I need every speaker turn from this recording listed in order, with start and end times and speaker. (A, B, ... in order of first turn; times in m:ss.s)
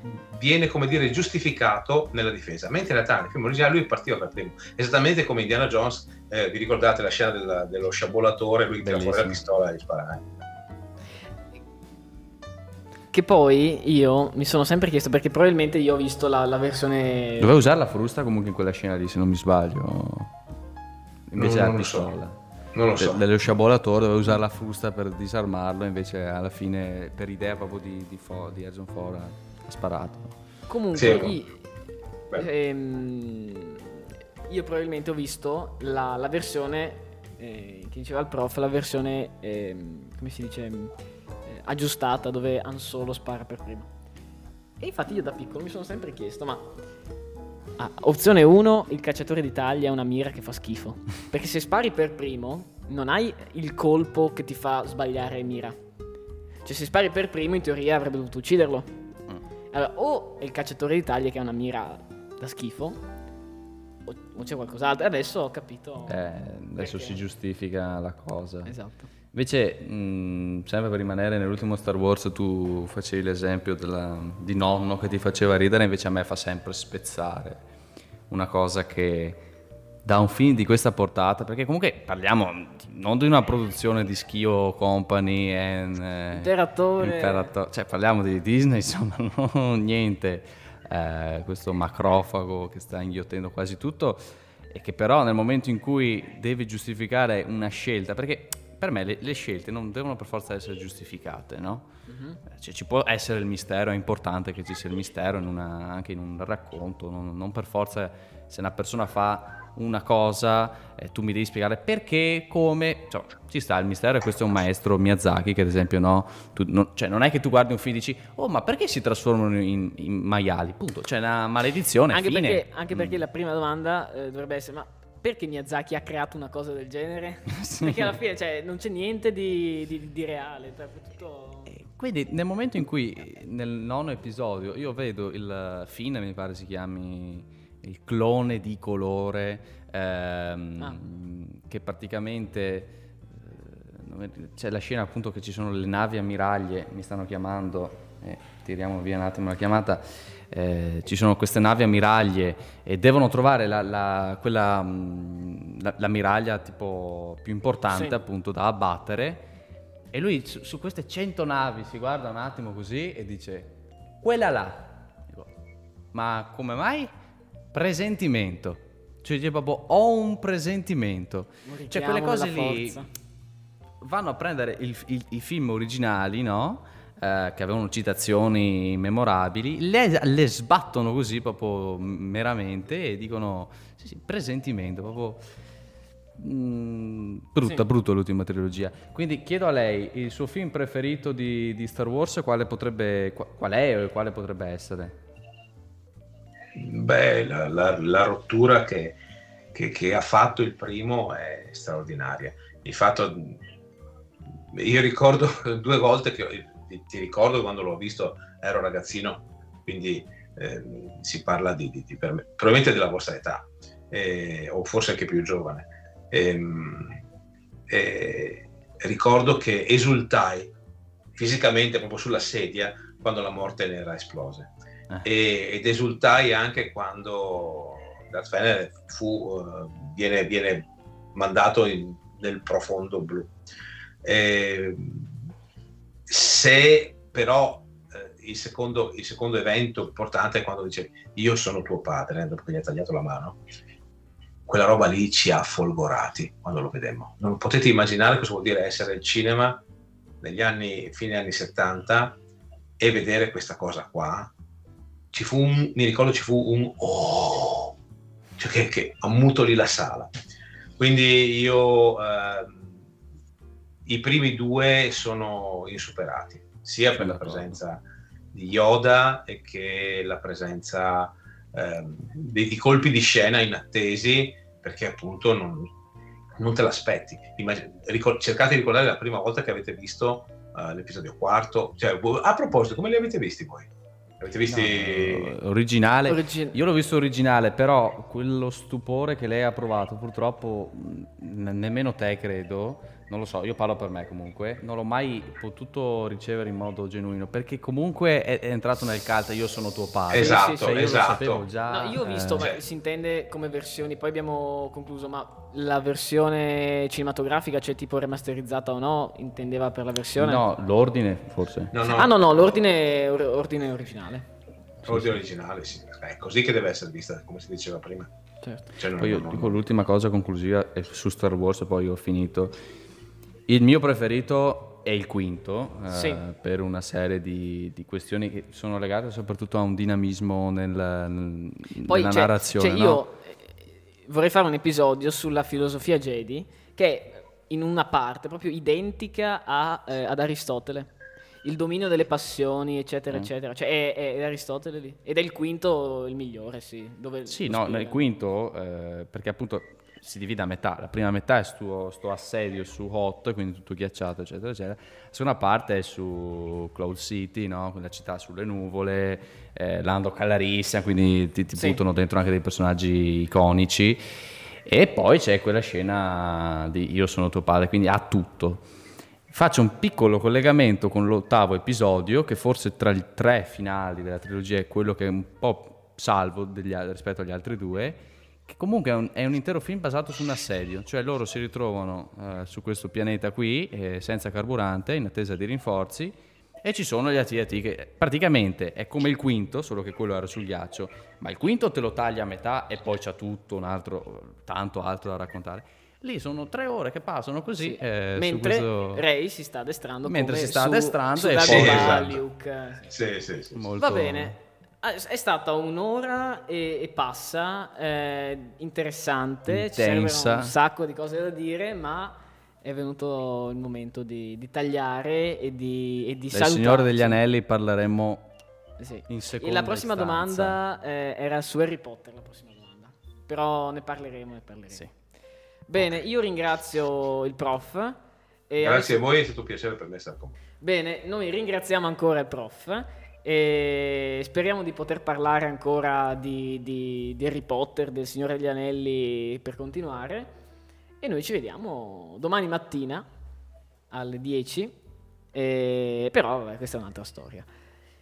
0:00.3-0:10.3 A
0:08.8-0:09.4 B
0:13.1-0:17.5 C
0:17.4-0:20.3 B
0:21.3-0:22.4 B
0:21.4-0:22.2 A
0:22.7-0:23.2 A
0:23.0-0:30.4 B
0:30.7-0:31.6 C
0:30.9-0:31.4 A
0:32.3-0:34.0 C
0:34.5-0:40.9 C
0:41.4-0:43.9 C
0:44.8-0:46.7 C
0:47.8-0:55.8 C
0:56.6-0:58.9 C
0:59.7-1:03.0 C
1:04.0-1:06.2 C
1:06.1-1:08.7 B
1:06.8-1:07.2 C
1:08.6-1:09.1 C
1:09.3-1:17.6 B
1:18.3-1:19.4 B
1:20.0-1:41.9 B
1:26.3-1:27.5 C
1:42.1-1:42.4 C
1:42.4-2:03.2 B
2:02.1-2:11.7 C
2:07.5-2:08.1 B
2:11.7-2:39.4 B
2:37.9-2:38.2 C
2:40.1-2:45.5 B
2:46.1-2:47.1 B
2:47.7-2:53.0 B
2:51.6-2:53.1 C
2:54.0-3:05.4 B
3:06.4-3:15.2 B
3:16.7-3:19.2 A
3:19.7-3:23.6 A
3:24.7-3:37.2 A
3:37.9-3:40.7 A
3:41.4-3:44.7 A
3:45.2-3:53.5 A
3:54.2-3:55.5 A
3:56.3-4:03.6 A
4:04.6-4:09.8 A
4:10.4-4:12.4 A
4:13.0-4:14.5 A
4:15.3-4:18.0 A
4:18.6-4:20.3 A
4:21.0-4:23.0 A
4:24.0-4:35.9 A
4:27.1-4:27.8 B
4:36.6-4:43.9 A
4:44.4-4:45.5 A
4:44.7-5:02.7 B
4:46.3-4:46.8 C
5:00.3-5:01.6 A
5:00.4-5:01.1 C
5:01.9-5:10.6 C
5:10.4-5:11.9 B
5:11.9-5:12.3 A
5:12.0-5:14.4 C
5:15.0-5:15.3 B
5:15.1-5:18.3 A
5:19.0-5:19.8 A
5:19.1-5:22.7 B
5:23.7-5:33.2 B
5:26.1-5:26.4 C
5:32.0-5:33.7 C
5:34.3-5:41.1 C
5:41.6-5:48.2 C
5:47.4-6:04.2 B
6:01.7-6:02.0 C
6:04.8-6:08.9 B
6:09.5-6:39.2 B
6:37.8-6:43.1 C
6:40.2-6:42.4 B
6:41.6-6:42.4 A
6:43.1-6:43.8 A
6:43.7-6:44.6 B
6:44.0-6:57.4 C
6:49.7-6:50.7 B
6:56.5-6:58.5 B
6:59.0-7:05.0 C
6:59.3-7:00.8 B
7:05.9-7:09.2 C
7:08.8-7:10.6 A
7:10.8-7:20.5 C
7:21.2-7:23.3 C
7:24.1-7:25.0 C
7:25.5-7:27.7 C